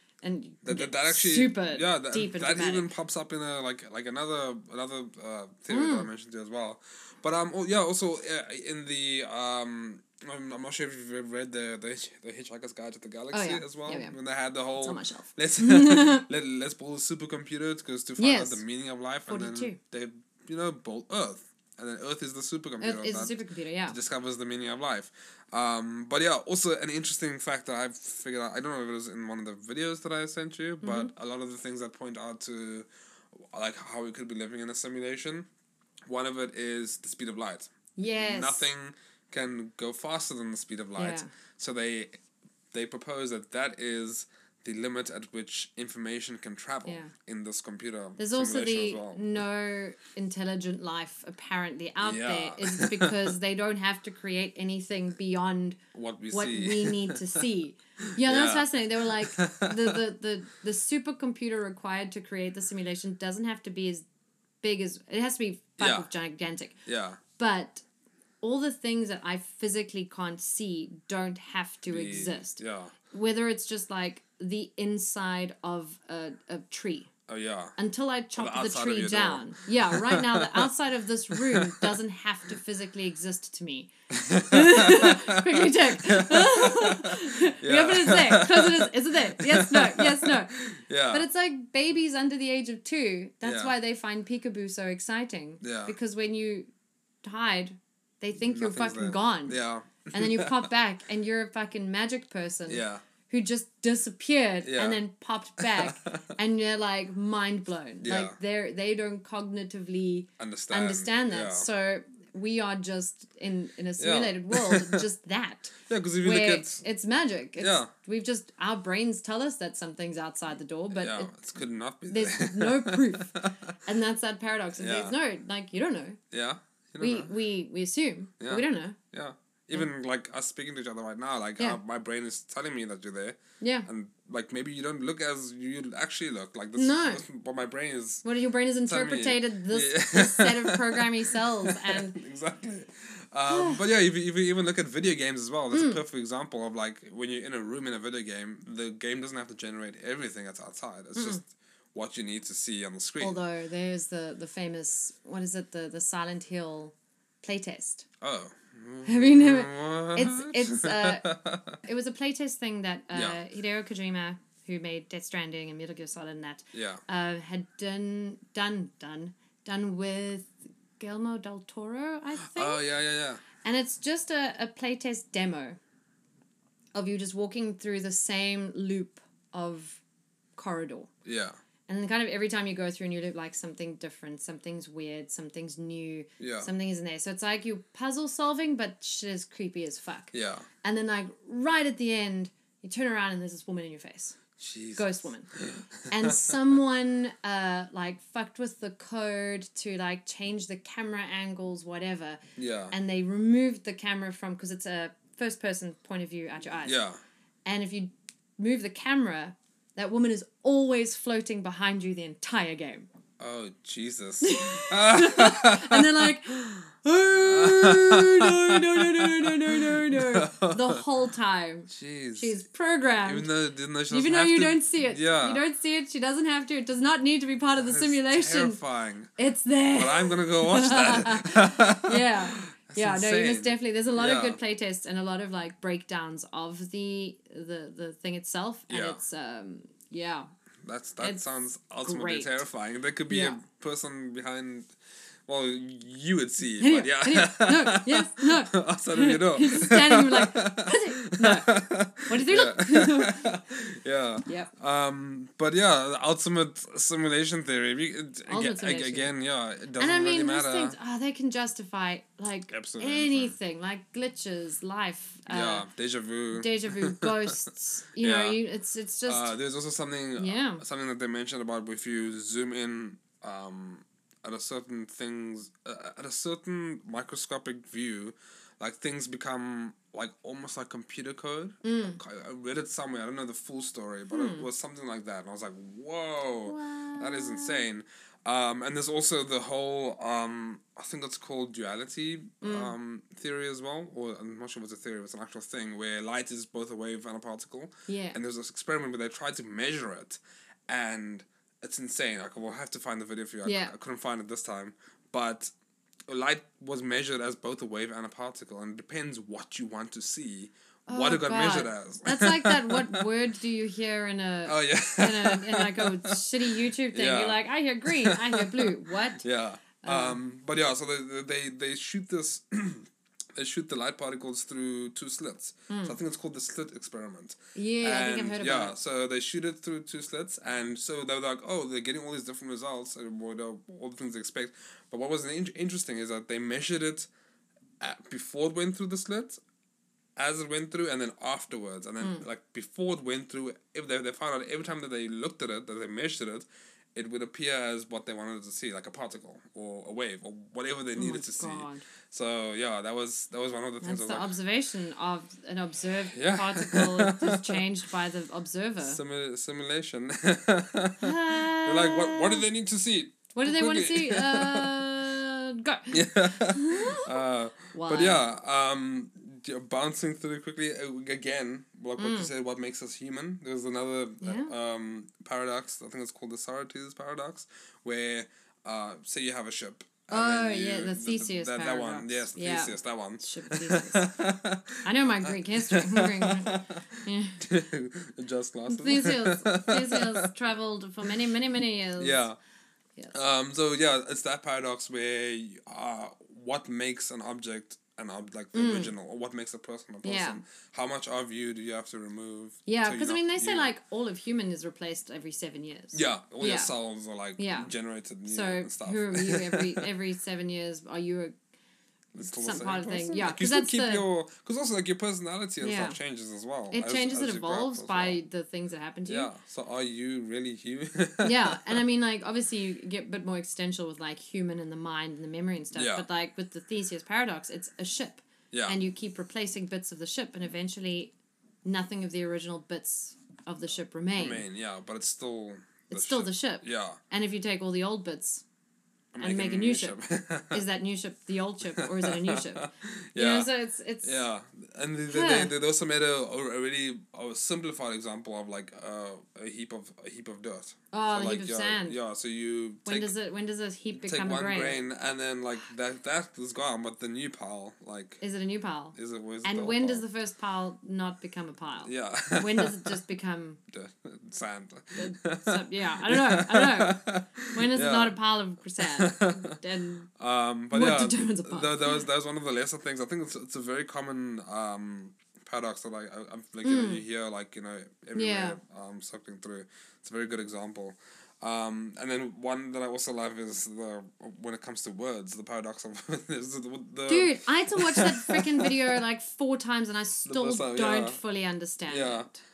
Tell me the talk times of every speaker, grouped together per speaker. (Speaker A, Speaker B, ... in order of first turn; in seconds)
Speaker A: 0.2-2.9, 5.7-6.1, 13.3-14.2, 14.8-16.2, 18.2-18.6, 19.3-19.8, 22.8-24.0, 30.8-31.1, 38.0-38.7, 41.0-41.3, 46.8-47.1, 48.2-55.8, 56.3-64.0, 64.6-66.8, 67.4-67.8, 68.4-77.1, 77.8-90.5, 91.1-96.7, 97.2-99.6, 100.1-121.3, 122.1-126.2, 127.0-129.0, 133.6-133.9, 136.8-137.2, 138.2-142.2, 143.5-143.8, 145.7-146.0, 151.1-151.4, 153.2-158.1, 159.0-161.2, 161.8-172.8, 173.6-175.8, 176.9-180.0, 180.6-181.1, 181.9-194.4, 194.9-195.5, 196.1-207.0, 207.6-213.1, 214.4-223.5, 224.1-228.8, 229.3-240.5, 241.2-242.6, 243.3-243.6, 246.8-253.4, 254.4-254.7, 258.5-259.3, 260.0-265.9, 266.5-269.5, 270.4-270.8, 281.8-282.2, 284.3-284.7, 286.6-287.9, 292.6-292.9, 298.1-298.4, 303.6-303.9, 311.1-319.4, 320.0-320.4, 325.9-326.2, 327.7-328.9, 342.2-342.4, 351.1-352.1, 354.0-359.2, 361.2-362.7, 363.6-368.4, 372.2-372.5, 374.4-374.7, 380.3-384.3, 385.0-387.7, 388.9-392.4, 398.7-399.1, 400.2-400.6, 402.9-406.9, 407.6-407.9, 408.5-411.5, 412.4-414.2, 415.8-416.2, 416.9-419.5, 421.4-434.6, 436.1-438.6, 439.4-440.2, 440.7-444.5, 445.3-445.7, 451.1-452.2, 453.1-455.0, 458.4-463.8, 465.2-470.3, 470.9-472.2, 476.8-477.2, 478.3-478.8, 487.3-492.6
Speaker B: 0.6-35.5, 36.0-42.2, 42.7-49.4, 52.0-53.4, 55.9-57.5, 58.2-60.0, 65.8-66.1, 66.8-67.2, 71.9-72.9, 77.3-77.7, 78.4-80.7, 81.3-82.0, 84.1-91.3, 93.4-93.7, 95.6-95.9, 98.4-100.7, 102.7-103.0, 104.6-105.0, 105.6-106.3, 108.0-108.4, 110.4-111.7, 114.0-115.0, 115.8-116.8, 117.6-117.9, 120.9-123.7, 124.8-125.1, 126.3-127.3, 128.4-138.2, 138.9-153.4, 158.2-161.8, 163.1-163.4, 166.7-167.0, 172.4-173.4, 181.2-181.6, 186.4-186.7, 190.3-190.7, 194.6-196.5, 202.6-202.9, 206.8-207.2, 213.4-216.7, 217.4-221.0, 221.9-222.5, 223.2-225.6, 227.8-229.3, 229.9-234.6, 238.9-239.2, 240.8-244.9, 245.5-260.9, 262.7-263.6, 265.5-268.6, 269.2-305.7, 306.3-313.2, 314.6-337.3, 338.0-339.6, 340.4-354.5, 356.3-357.8, 359.0-365.0, 366.1-390.5, 392.2-392.6, 393.3-403.9, 406.1-410.1, 412.3-418.4, 419.3-422.0, 425.9-426.2, 428.7-429.0, 434.4-437.2, 439.3-440.8, 441.9-443.7, 444.2-453.3, 454.1-458.4, 459.1-460.2, 462.0-463.2, 463.9-468.4, 469.0-469.8, 470.4-489.2, 490.4-491.4, 492.1-492.5